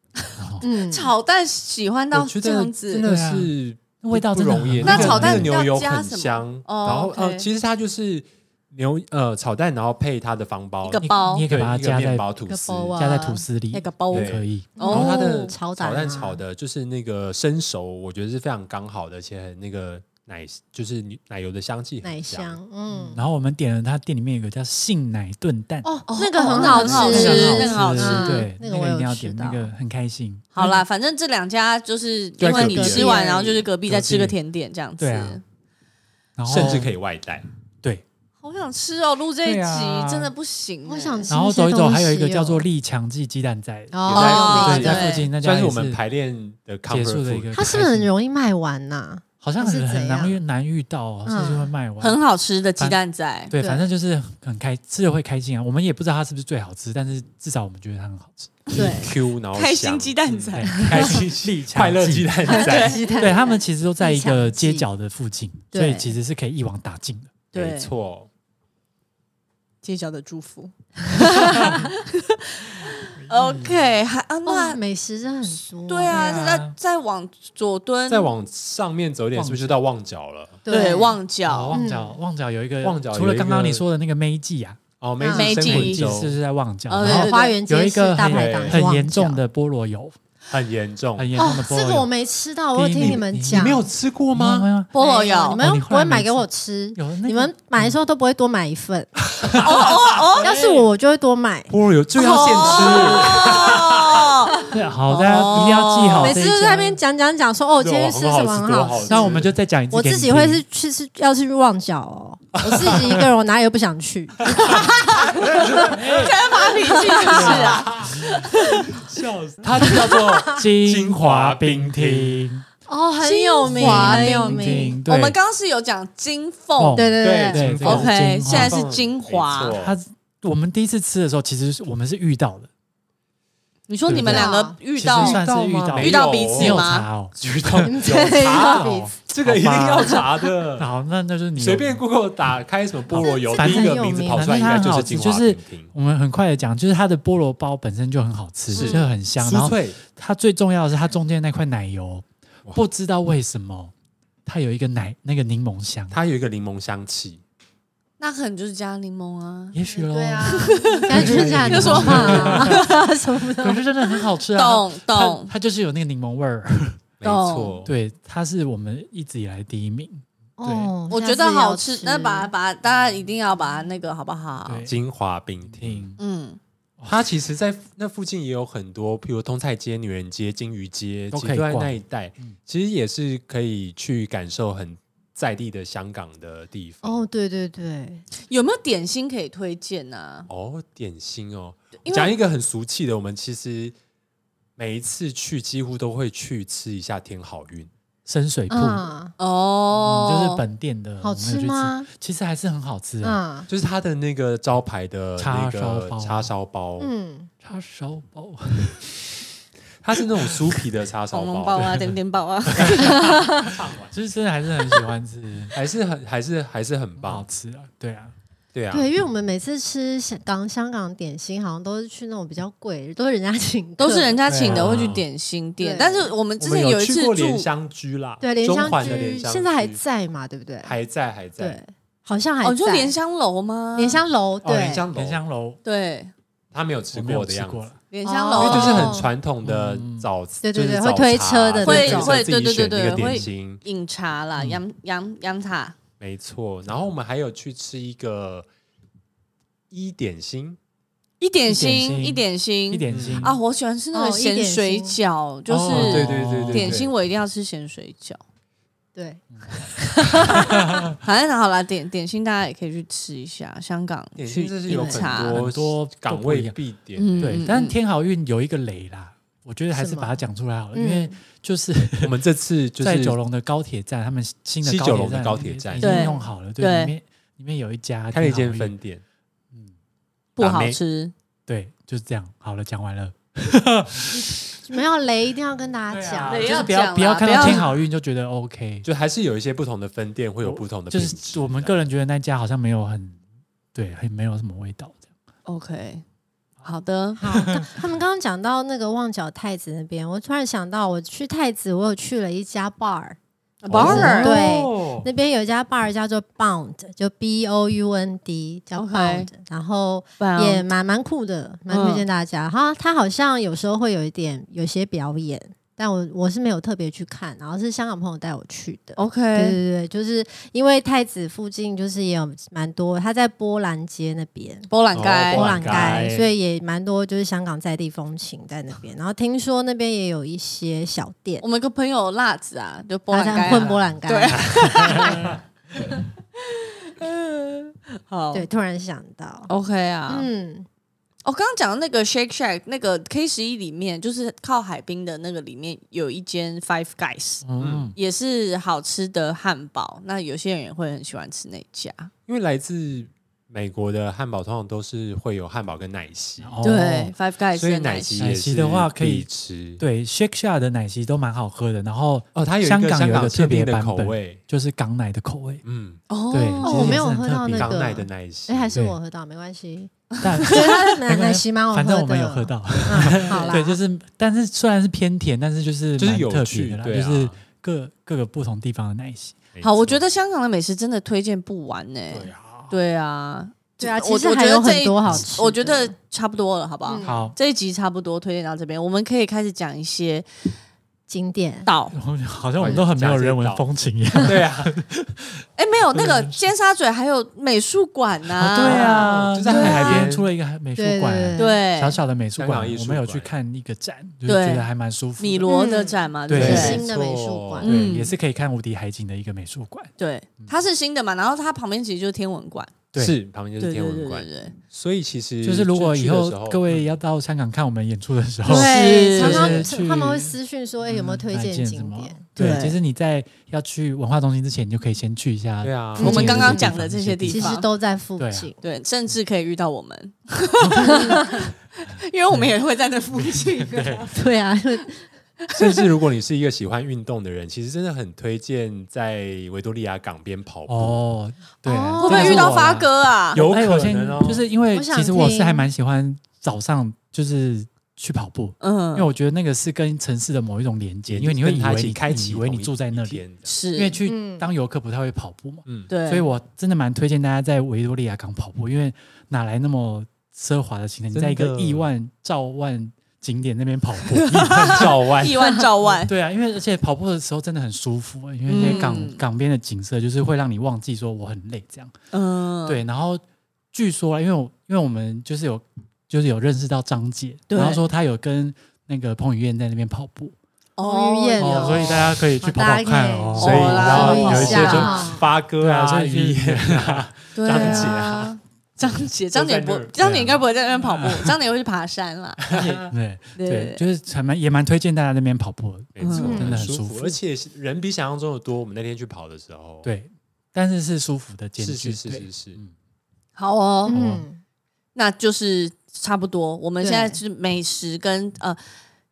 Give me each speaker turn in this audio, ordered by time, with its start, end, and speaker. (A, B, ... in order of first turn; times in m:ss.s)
0:00.4-0:00.6 A
0:00.6-0:01.1 B
0:00.6-0:03.0 C
0:02.1-0:13.1 D
0:03.0-0:05.6 A
0:04.8-0:07.5 C
0:10.8-0:11.5 C
0:11.0-0:12.3 A
0:12.5-0:13.4 B
0:13.0-0:14.8 A
0:13.7-0:15.4 C
0:14.1-0:22.6 D
0:14.8-0:16.4 B
0:22.0-0:23.2 B
0:23.0-0:25.9 A
0:25.8-0:29.7 B
0:26.1-0:28.5 C
0:26.6-0:30.8 A
0:27.0-0:27.2 D
0:30.6-0:35.4 C
0:32.4-0:33.2 D
0:32.6-0:33.7 B
0:33.8-0:34.4 D
0:35.0-0:35.4 A
0:36.4-0:36.9 A
0:36.5-0:37.5 D
0:38.4-0:41.3 C
0:39.4-0:40.3 A
0:40.9-0:42.7 B
0:41.3-0:46.0 A
0:43.9-0:45.1 B
0:44.1-0:45.3 C
0:44.1-0:47.5 D
0:46.9-0:48.1 A
0:47.5-0:50.4 B
0:49.4-0:52.2 A
0:51.3-0:51.7 B
0:52.0-0:53.5 C
0:53.5-0:58.7 A
0:53.6-0:53.9 B
0:58.7-1:03.1 D
0:58.7-0:59.1 B
0:58.8-1:01.1 C
1:00.6-1:02.4 A
1:02.5-1:03.3 C
1:02.5-1:04.8 B
1:03.2-1:07.3 A
1:05.7-1:06.1 B
1:07.5-1:07.9 C
1:07.5-1:08.3 D
1:09.8-1:14.8 C
1:11.4-1:11.8 A
1:13.2-1:13.8 A
1:14.5-1:16.4 B
1:15.9-1:18.3 C
1:16.1-1:16.8 A
1:18.1-1:20.6 D
1:19.4-1:19.8 A
1:20.7-1:21.2 B
1:20.7-1:21.8 C
1:21.5-1:24.8 A
1:21.7-1:22.2 B
1:22.8-1:23.8 D
1:25.0-1:26.4 D
1:25.2-1:25.5 B
1:25.3-1:26.1 C
1:25.6-1:30.2 A
1:26.9-1:27.6 C
1:27.0-1:29.4 B
1:28.3-1:28.9 D
1:30.5-1:31.4 D
1:31.2-1:32.1 A
1:31.4-1:33.9 B
1:32.7-1:34.9 A
1:33.0-1:34.7 D
1:34.9-1:35.6 C
1:35.0-1:39.3 B
1:35.6-1:38.0 A
1:39.4-1:39.9 D
1:39.6-1:40.5 C
1:40.4-1:40.9 A
1:40.4-1:41.7 B
1:41.7-1:44.4 D
1:42.2-1:46.4 C
1:42.3-1:43.3 B
1:44.7-1:47.0 A
1:46.2-1:55.9 B
1:47.8-1:49.5 D
1:49.0-1:50.6 A
1:52.6-1:53.2 D
1:54.6-1:56.3 D
1:55.9-1:56.4 A
1:56.0-1:58.9 C
1:56.8-1:57.8 B
1:57.3-1:58.3 D
1:57.3-1:57.6 A
1:59.1-2:00.0 A
1:59.1-2:02.5 D
1:59.8-2:00.2 B
2:00.5-2:02.6 A
2:02.9-2:05.0 B
2:03.2-2:07.1 C
2:03.6-2:05.4 A
2:06.8-2:08.8 A
2:07.0-2:07.7 B
2:07.2-2:10.0 D
2:07.8-2:09.8 C
2:09.7-2:12.7 A
2:13.9-2:15.4 C
2:14.1-2:20.2 A
2:14.1-2:14.8 B
2:15.2-2:20.9 D
2:16.0-2:17.1 C
2:17.8-2:19.2 B
2:20.8-2:22.0 A
2:21.6-2:25.9 D
2:23.1-2:33.9 A
2:23.2-2:24.7 B
2:28.8-2:29.0 C
2:28.8-2:30.0 D
2:34.5-2:36.2 A
2:36.1-2:37.4 D
2:38.2-2:39.8 C
2:39.7-2:42.9 A
2:39.9-2:43.8 B
2:40.4-2:43.2 C
2:41.7-2:42.6 D
2:43.6-2:47.0 A
2:44.6-2:45.5 C
2:47.2-2:47.9 D
2:47.2-2:47.8 C
2:47.9-2:50.9 A
2:50.6-2:52.5 B
2:51.1-2:54.9 C
2:54.7-2:55.0 A
2:54.9-2:56.1 D
2:55.7-2:56.2 A
2:56.2-2:56.6 C
2:57.1-3:07.2 D
3:01.3-3:02.6 A
3:07.0-3:08.2 B
3:08.5-3:10.5 C
3:10.5-3:14.0 D
3:12.0-3:12.4 C
3:14.8-3:17.9 D
3:18.3-3:19.1 A
3:18.7-3:19.3 B
3:19.4-3:20.6 C
3:20.0-3:23.4 A
3:21.2-3:22.1 B
3:23.2-3:23.7 B
3:23.7-3:27.1 D
3:25.4-3:26.5 A
3:27.0-3:27.5 B
3:27.6-3:29.3 A
3:30.0-3:32.0 D
3:31.3-3:33.6 C
3:32.8-3:34.2 D
3:34.1-3:35.8 A
3:35.7-3:37.4 D
3:37.2-3:38.3 A
3:38.7-3:39.1 D
3:38.9-3:44.4 B
3:44.0-3:47.7 C
3:44.5-3:45.2 A
3:44.6-3:45.2 D
3:45.8-3:46.3 B
3:46.6-3:50.0 D
3:48.4-3:51.0 B
3:48.8-3:49.3 A
3:50.8-3:51.8 D
3:51.6-3:53.2 B
3:52.6-3:54.3 C
3:54.0-3:55.0 B
3:54.6-3:55.4 D
3:55.2-3:55.8 A
3:55.8-3:56.3 C
3:56.7-3:57.9 D
3:57.1-3:58.0 A
3:58.1-3:59.2 C
3:58.2-3:59.3 B
3:58.6-4:03.8 D
3:59.6-4:00.3 A
4:00.6-4:02.4 B
4:01.8-4:06.0 C
4:04.6-4:04.8 A
4:06.2-4:08.7 D
4:09.9-4:10.8 D
4:11.4-4:18.4 C
4:11.7-4:13.6 A
4:13.1-4:13.5 D
4:14.1-4:15.2 B
4:15.7-4:17.0 A
4:15.9-4:17.1 D
4:19.2-4:19.4 B
4:20.3-4:20.9 B
4:20.4-4:20.6 C
4:20.4-4:21.1 A
4:21.2-4:25.6 C
4:24.4-4:27.6 D
4:24.9-4:25.3 B
4:25.4-4:26.8 A
4:27.2-4:28.0 C
4:27.4-4:32.3 A
4:29.9-4:30.4 B
4:30.9-4:31.4 B
4:32.2-4:33.4 D
4:33.0-4:39.0 A
4:34.8-4:36.2 D
4:36.0-4:37.1 C
4:36.1-4:36.5 B
4:38.3-4:39.2 D
4:40.6-4:41.3 C
4:40.6-4:41.0 D
4:41.7-4:44.7 A
4:44.8-4:46.8 B
4:46.1-4:49.1 A
4:46.5-4:48.0 C
4:47.5-4:47.8 B
4:49.0-4:52.0 D
4:50.6-4:53.4 A
4:53.9-4:55.2 A
4:55.7-4:56.2 C
4:56.8-4:57.4 C
4:57.4-5:03.4 B
4:57.5-4:57.9 A
5:03.8-5:04.7 C
5:03.9-5:05.3 D
5:04.0-5:24.9 B
5:04.1-5:04.5 A
5:09.0-5:09.5 C
5:10.4-5:10.9 C
5:11.9-5:12.2 C
5:19.2-5:19.8 C
5:24.9-5:26.2 C
5:25.1-5:26.5 D
5:25.5-5:31.6 B
5:31.6-5:38.7 C
5:33.3-5:35.4 B
5:34.7-5:35.6 D
5:38.5-5:39.7 B
5:39.7-5:40.5 C
5:40.3-5:40.9 B
5:41.4-5:47.6 C
5:47.6-5:48.2 A
5:47.8-5:48.1 D
5:48.2-5:52.3 C
5:52.5-5:56.7 D
5:56.6-5:57.3 A
5:56.8-5:58.4 C
5:57.7-6:00.0 D
5:58.4-5:59.5 A
6:00.0-6:05.8 A
6:02.6-6:04.6 D
6:05.8-6:06.2 D
6:06.3-6:07.3 C
6:06.5-6:08.0 A
6:06.8-6:14.0 B
6:07.7-6:09.0 D
6:10.4-6:19.6 A
6:13.3-6:13.8 C
6:16.2-6:17.6 D
6:19.7-6:20.2 D
6:19.8-6:30.5 C
6:22.3-6:23.0 A
6:24.0-6:26.2 B
6:27.0-6:27.3 B
6:27.2-6:27.6 A
6:31.3-6:31.9 B
6:31.8-6:32.1 C
6:32.1-6:35.6 A
6:32.8-6:33.9 D
6:34.4-6:35.0 D
6:35.8-6:40.2 C
6:36.2-6:36.6 A
6:38.6-6:45.7 A
6:38.8-6:40.5 D
6:41.0-6:41.8 B
6:41.6-6:42.2 C
6:42.6-6:43.5 D
6:44.4-6:47.1 C
6:45.7-6:47.9 B
6:46.5-6:47.0 A
6:46.5-6:48.1 D
6:47.8-6:48.3 C
6:47.8-6:50.8 A
6:50.2-6:53.0 C
6:53.2-6:57.1 D
6:53.8-6:54.8 C
6:55.6-7:07.8 A
6:58.7-6:59.9 C
6:58.7-7:02.4 B
7:02.6-7:03.0 C
7:05.8-7:06.8 D
7:06.2-7:06.9 B
7:06.2-7:07.9 C
7:07.5-7:08.8 B
7:08.4-7:08.7 A
7:08.8-7:14.5 C
7:10.8-7:11.2 A
7:11.0-7:11.7 B
7:13.4-7:14.2 A
7:14.3-7:15.2 B
7:15.7-7:16.1 C
7:15.7-7:21.2 D
7:20.9-7:33.4 A
7:21.8-7:22.8 B
7:22.2-7:23.6 C
7:22.5-7:23.0 D
7:23.5-7:24.7 D
7:24.9-7:25.9 B
7:28.8-7:29.3 C
7:31.3-7:33.7 D
7:33.7-7:34.2 C
7:34.0-7:45.1 A
7:34.3-7:34.7 B
7:35.9-7:36.1 D
7:36.1-7:36.5 C
7:41.3-7:42.1 D
7:44.5-7:46.3 C
7:44.8-7:45.8 D
7:46.2-7:52.1 A
7:48.7-7:49.4 C
7:48.8-7:49.1 B
7:52.3-7:53.0 C
7:52.9-8:00.6 A
7:57.7-7:58.0 C
8:01.0-8:02.3 C
8:01.0-8:05.5 B
8:01.6-8:08.2 A
8:03.6-8:08.6 D
8:03.6-8:05.4 C
8:07.6-8:12.6 C
8:09.5-8:10.6 D
8:10.2-8:10.6 A
8:11.2-8:11.5 A
8:12.6-8:13.1 D
8:12.7-8:17.4 A
8:13.6-8:14.0 C
8:16.2-8:20.1 D
8:16.2-8:16.6 C
8:16.4-8:16.8 B
8:20.0-8:22.9 A
8:21.8-8:22.8 D
8:23.6-8:24.2 C
8:24.1-8:24.6 B
8:24.1-8:24.4 A
8:25.2-8:28.8 C
8:27.0-8:27.4 B